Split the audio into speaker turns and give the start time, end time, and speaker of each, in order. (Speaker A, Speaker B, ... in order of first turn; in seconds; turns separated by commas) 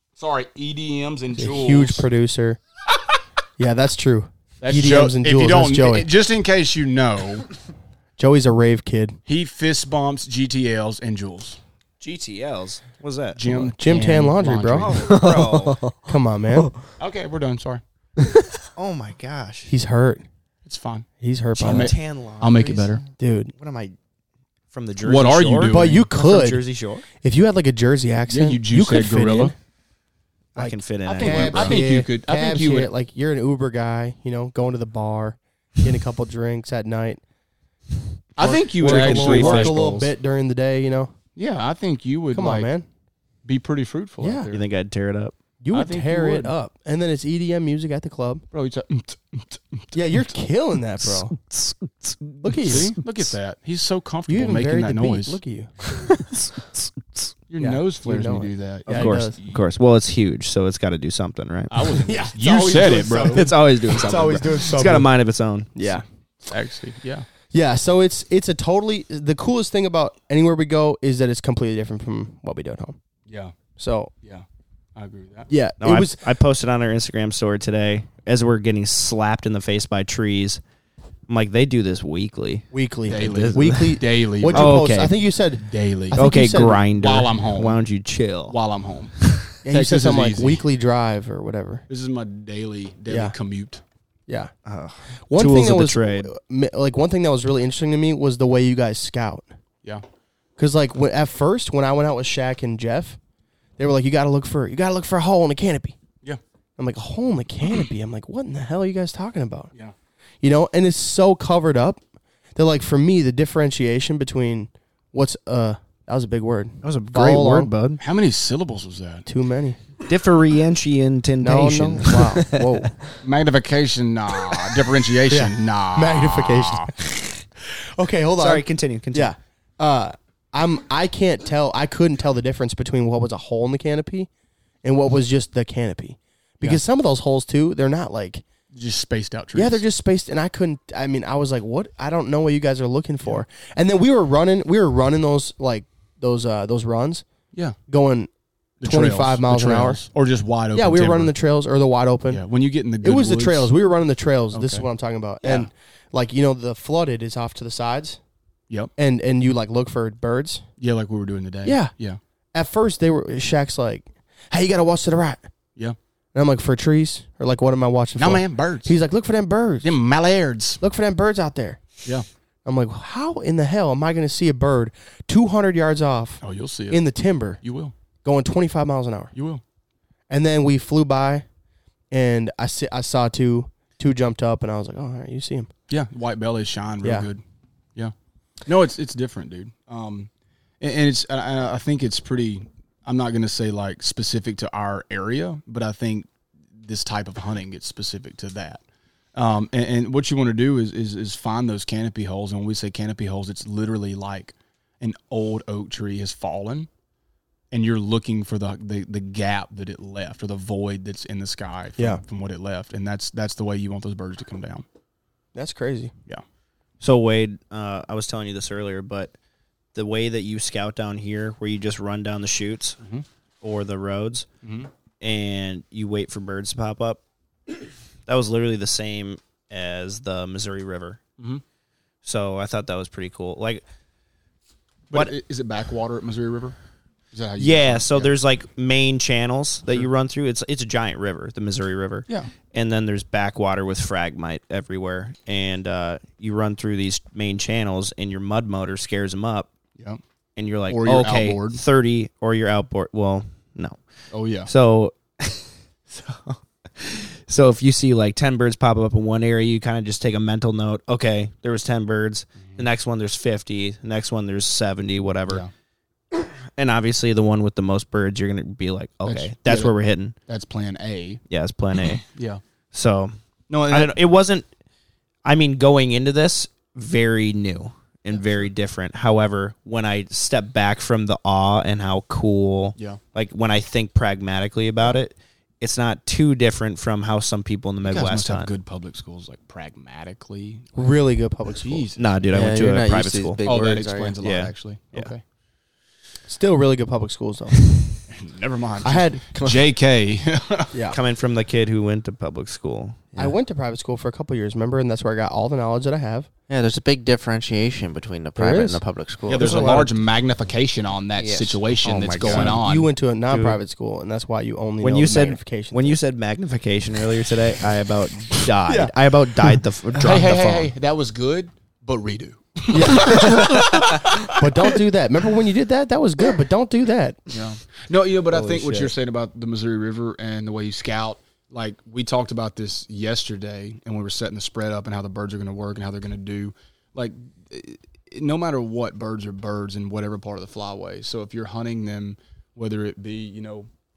Speaker A: 0.2-2.0, Speaker B: 1.4-2.6, Speaker B: 3.6-6.1, Speaker A: 4.6-7.5, Speaker B: 8.2-9.2, Speaker A: 9.3-11.6, Speaker C: 12.0-13.4, Speaker A: 13.3-15.1, Speaker B: 13.5-15.0, Speaker C: 14.8-15.8, Speaker D: 15.0-16.0, Speaker B: 16.1-16.7, Speaker A: 17.0-17.8, Speaker C: 18.8-19.7, Speaker B: 19.7-20.2, Speaker A: 20.6-21.1, Speaker B: 21.2-21.9, Speaker C: 21.6-23.1, Speaker A: 21.6-23.0, Speaker B: 23.2-23.5, Speaker C: 23.6-23.9, Speaker C: 24.7-27.1, Speaker A: 25.0-26.1, Speaker B: 25.7-26.6, Speaker B: 27.2-29.5, Speaker A: 28.3-29.5, Speaker C: 30.5-31.8, Speaker B: 30.6-37.2, Speaker A: 31.0-32.9, Speaker A: 38.4-40.0, Speaker B: 38.4-41.1, Speaker C: 38.8-40.0, Speaker A: 41.4-42.7, Speaker B: 42.3-42.9, Speaker A: 43.4-44.6, Speaker B: 44.2-44.5, Speaker C: 44.5-45.4, Speaker B: 45.6-48.4, Speaker A: 45.7-46.5, Speaker A: 48.5-50.2, Speaker B: 49.9-51.4, Speaker C: 51.0-52.1, Speaker B: 52.4-53.0, Speaker A: 52.6-55.4, Speaker B: 54.3-55.7, Speaker C: 55.9-57.3, Speaker A: 57.5-59.6, Speaker B: 57.6-59.4, Speaker C: 58.9-62.0, Speaker A: 61.7-63.5, Speaker B: 62.0-65.1, Speaker C: 63.3-65.7, Speaker B: 65.7-66.0, Speaker A: 66.4-67.3, Speaker B: 67.5-73.0, Speaker A: 73.3-73.5, Speaker B: 73.8-74.1, Speaker A: 75.0-75.5, Speaker B: 75.5-76.2, Speaker C: 75.8-80.6, Speaker C: 81.3-85.1, Speaker B: 82.7-86.8, Speaker A: 83.1-84.8, Speaker A: 85.7-87.8, Speaker C: 86.1-88.5, Speaker A: 88.5-89.1, Speaker A: 89.6-90.6, Speaker B: 89.6-91.8, Speaker A: 91.9-93.8, Speaker B: 93.1-93.3, Speaker C: 94.6-96.3, Speaker B: 95.3-99.5, Speaker B: 100.6-103.2, Speaker B: 103.8-106.0, Speaker B: 106.8-109.7, Speaker B: 110.4-112.0, Speaker B: 112.5-117.7, Speaker C: 116.8-118.0, Speaker A: 118.0-119.3, Speaker B: 119.3-119.8, Speaker C: 120.0-122.7, Speaker B: 121.4-123.0, Speaker A: 123.2-126.9, Speaker B: 125.3-127.1, Speaker B: 128.0-134.3, Speaker C: 128.4-129.3, Speaker B: 134.8-138.4, Speaker A: 138.7-139.8, Speaker B: 139.5-147.2, Speaker B: 147.9-148.3, Speaker A: 148.8-151.3, Speaker B: 148.8-150.0, Speaker B: 150.7-152.4, Speaker A: 152.3-153.7, Speaker B: 153.0-158.2, Speaker A: 154.5-154.9, Speaker A: 155.4-155.7, Speaker B: 159.0-160.6, Speaker A: 160.8-162.2, Speaker B: 161.6-161.9, Speaker B: 162.5-165.5, Speaker B: 166.3-169.9, Speaker A: 168.2-168.9, Speaker A: 169.8-170.8, Speaker B: 170.8-171.8, Speaker B: 172.6-177.6, Speaker A: 176.4-177.0, Speaker A: 177.6-177.9, Speaker B: 178.2-179.3, Speaker A: 179.3-179.6, Speaker B: 180.3-181.4, Speaker B: 182.1-185.7, Speaker A: 185.9-187.4, Speaker B: 187.0-187.3, Speaker A: 188.7-190.3, Speaker A: 190.8-196.3, Speaker A: 196.8-198.8, Speaker A: 199.3-206.9, Speaker A: 207.7-214.8, Speaker B: 215.5-216.1, Speaker C: 217.0-219.3, Speaker C: 219.9-223.0, Speaker C: 223.6-224.5, Speaker A: 224.6-224.9, Speaker C: 225.2-231.2, Speaker C: 232.2-233.8, Speaker A: 235.1-236.8, Speaker A: 237.3-238.3, Speaker C: 237.6-249.7, Speaker C: 250.6-254.0, Speaker A: 250.9-251.8, Speaker A: 254.3-254.7, Speaker C: 254.7-265.6, Speaker C: 266.3-270.4, Speaker A: 269.2-269.9, Speaker A: 270.5-271.4, Speaker C: 271.5-272.2, Speaker A: 272.3-272.6, Speaker C: 272.9-273.3, Speaker A: 273.7-274.1, Speaker C: 273.9-274.7, Speaker C: 275.4-288.7, Speaker A: 288.0-290.9, Speaker B: 290.9-292.1, Speaker A: 291.7-292.2, Speaker C: 292.1-293.6, Speaker D: 292.5-294.4, Speaker A: 293.6-295.4, Speaker C: 294.4-295.3, Speaker B: 296.5-298.2, Speaker A: 298.3-300.9, Speaker B: 299.0-299.7, Speaker B: 300.9-301.2, Speaker C: 301.1-303.2, Speaker B: 303.4-306.5, Speaker D: 306.7-309.9, Speaker B: 308.6-309.0, Speaker A: 309.5-313.1, Speaker B: 309.6-310.1, Speaker D: 311.4-312.7, Speaker C: 312.0-312.8, Speaker B: 312.4-316.2, Speaker C: 313.5-313.8, Speaker C: 315.0-320.9, Speaker B: 318.9-319.1, Speaker A: 320.1-325.0, Speaker B: 322.9-327.4, Speaker A: 327.5-343.9, Speaker C: 328.5-329.1